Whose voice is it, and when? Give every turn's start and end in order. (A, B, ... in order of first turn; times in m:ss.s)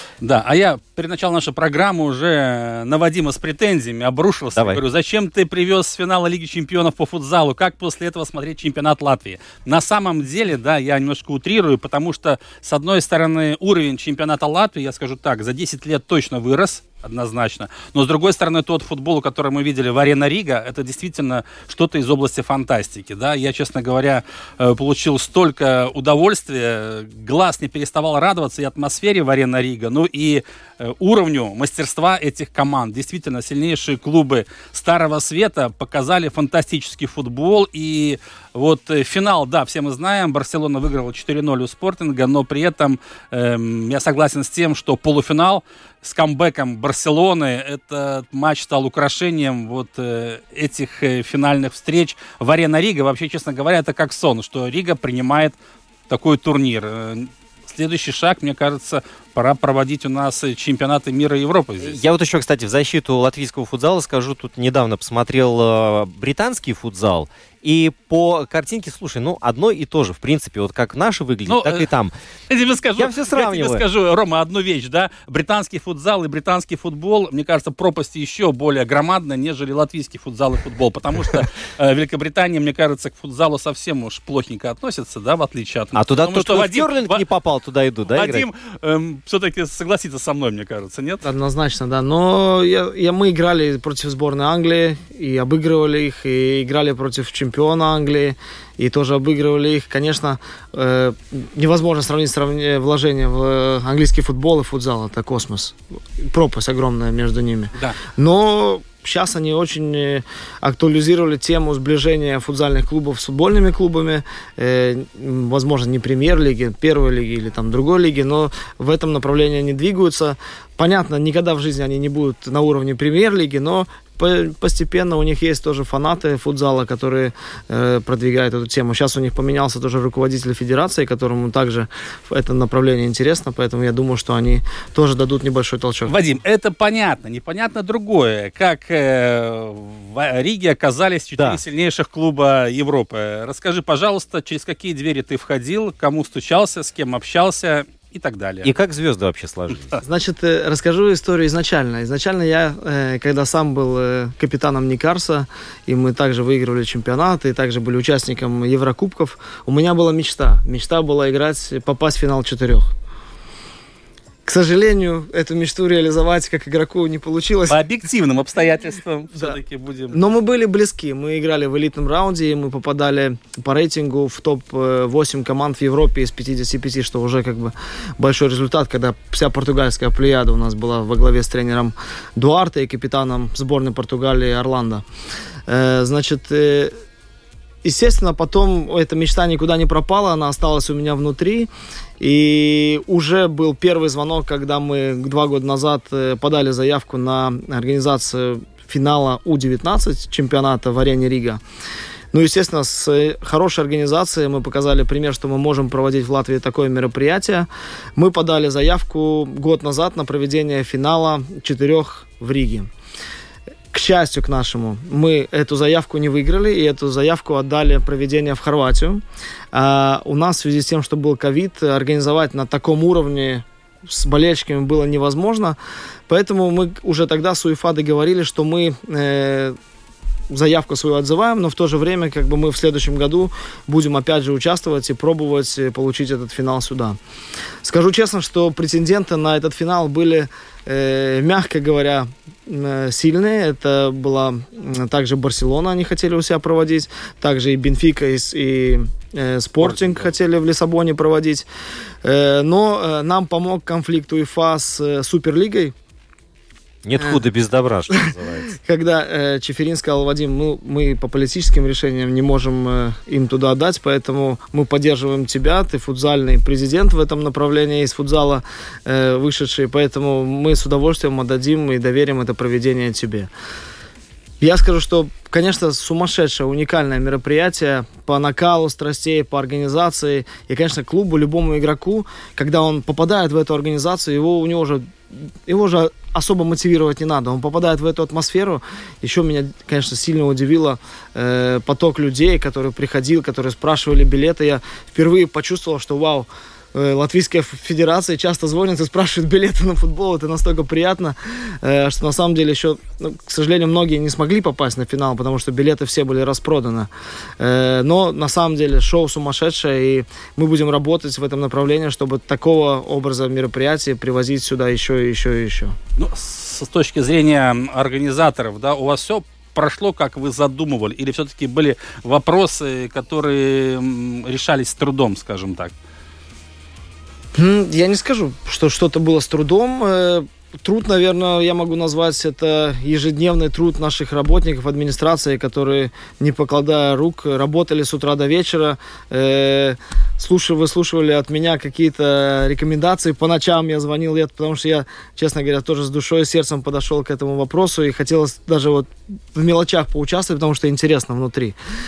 0:00.2-0:55.6 A
0:04.5-0:04.8 B
0:56.1-1:02.0 A
1:01.8-1:12.1 B
1:11.5-1:11.8 A
1:12.5-1:27.2 A
1:13.0-1:13.8 B
1:25.9-1:28.5 B
1:28.1-1:31.2 A
1:31.2-2:16.2 C
2:16.1-2:28.7 A
2:21.4-2:21.6 B
2:28.6-2:30.0 B
2:30.0-2:42.9 C
2:44.4-2:47.8 C
2:47.7-2:50.2 A
2:50.1-3:05.0 C
3:05.7-3:06.9 C
3:07.8-3:11.7 C
3:12.2-3:21.6 C
3:22.3-3:32.9 C
3:33.9-3:45.8 C
3:46.3-3:49.8 C
3:50.5-3:57.2 C
3:57.8-4:11.6 C
4:09.8-4:10.3 A
4:12.2-4:15.9 C
4:17.0-4:18.8 B
4:18.7-4:33.5 C
4:34.6-5:16.0 C
5:16.2-5:25.9 A
5:27.6-5:51.7 C